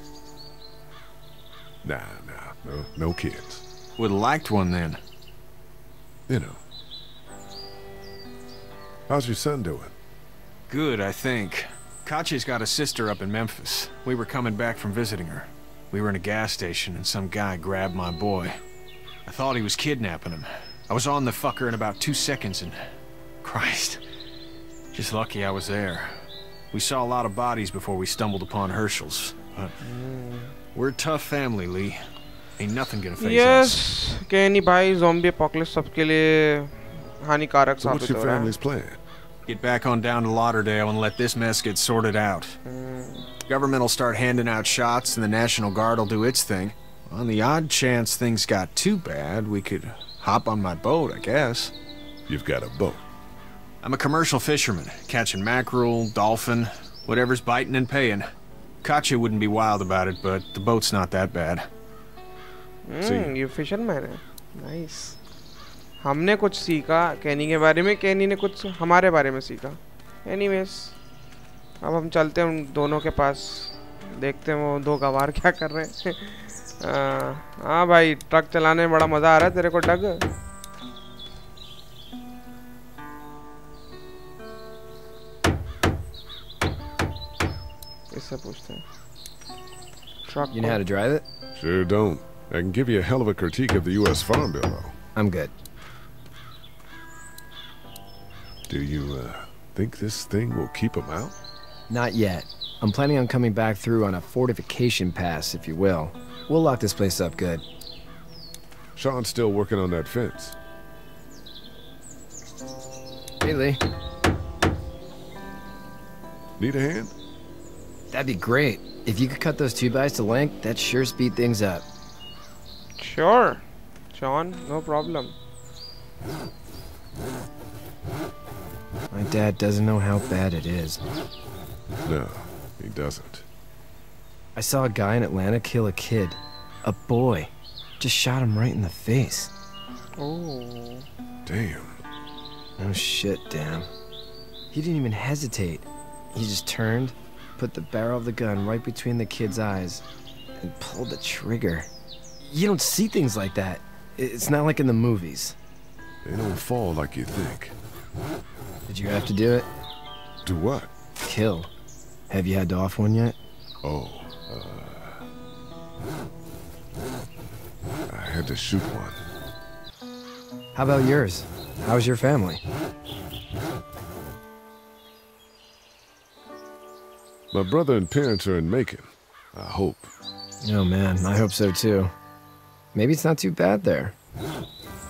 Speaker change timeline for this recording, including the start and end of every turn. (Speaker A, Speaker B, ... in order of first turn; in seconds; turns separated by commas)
Speaker A: 1.8-3.6, Speaker B: 4.0-5.0, Speaker A: 6.3-6.6, Speaker A: 9.1-9.9, Speaker B: 10.7-18.6, Speaker B: 19.3-22.9, Speaker B: 23.4-24.0, Speaker B: 24.9-29.7, Speaker C: 29.8-30.5, Speaker B: 30.8-32.0, Speaker B: 32.6-33.8, Speaker C: 33.2-38.5, Speaker A: 37.8-39.0, Speaker B: 39.5-42.6, Speaker C: 42.6-43.3, Speaker B: 43.5-51.7, Speaker A: 52.3-53.0, Speaker B: 53.8-58.3, Speaker B: 58.8-61.7, Speaker C: 62.9-65.2, Speaker A: 63.0-63.3, Speaker C: 66.0-71.0, Speaker C: 71.8-80.2, Speaker C: 88.1-88.8, Speaker C: 90.3-90.8, Speaker D: 90.5-91.2, Speaker A: 91.5-95.0, Speaker D: 95.2-95.5, Speaker A: 98.7-101.3, Speaker D: 101.9-107.6, Speaker A: 109.0-110.6, Speaker D: 113.4-113.8, Speaker A: 116.6-117.1, Speaker D: 118.1-121.8, Speaker C: 123.0-125.4, Speaker D: 129.1-131.0, Speaker A: 132.1-133.4, Speaker D: 134.6-139.5, Speaker C: 140.2-141.1, Speaker A: 141.4-142.0, Speaker D: 142.8-143.9, Speaker D: 144.7-150.0, Speaker D: 150.6-151.9, Speaker D: 152.4-155.6, Speaker A: 156.2-157.8, Speaker D: 158.9-159.7, Speaker A: 160.4-160.9, Speaker D: 161.2-161.7, Speaker D: 162.3-163.4, Speaker A: 163.8-165.3, Speaker A: 168.1-169.2, Speaker D: 170.8-172.6, Speaker A: 177.5-180.1, Speaker D: 180.6-182.1, Speaker D: 182.9-184.1